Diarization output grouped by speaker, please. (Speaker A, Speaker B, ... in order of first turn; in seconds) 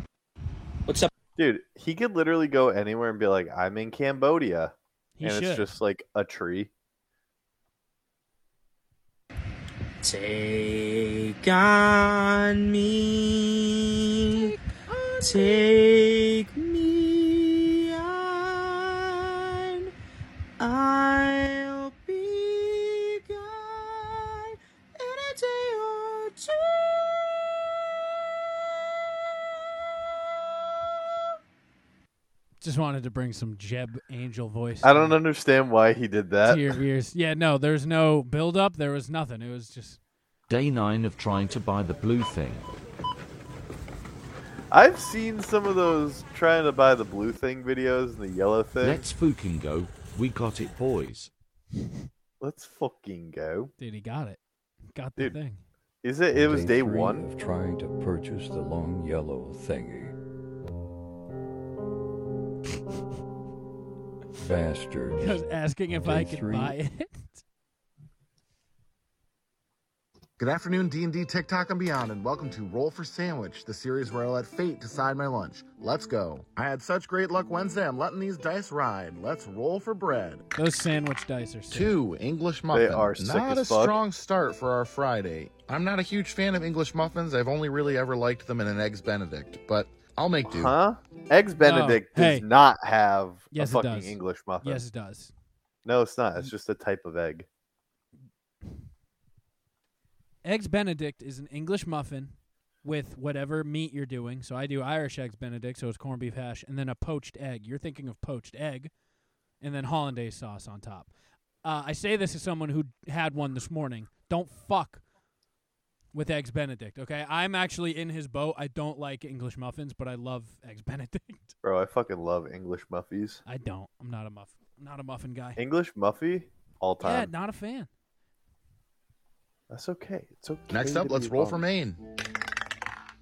Speaker A: 1.4-6.7, 34.8-36.8, 44.7-49.1, 52.4-53.7, 56.0-57.3, 82.7-84.0, 90.5-94.8, 95.8-97.5, 121.6-123.4, 125.6-127.3, 129.7-131.6
Speaker B: 5.2-5.7, 14.3-15.6, 32.6-35.2, 36.4-40.0, 53.8-54.4, 54.9-55.6, 65.2-67.4, 80.5-82.0, 91.6-92.5, 93.5-95.3, 100.4-108.9, 109.6-115.0, 116.1-121.5, 123.5-125.6, 127.0-127.9
Speaker C: 10.0-14.5, 15.2-19.9, 20.6-27.3
Speaker D: 40.5-42.7, 48.8-51.3
Speaker E: 56.3-60.1, 64.4-66.8
Speaker F: 70.4-80.5, 81.7-90.8, 130.7-132.0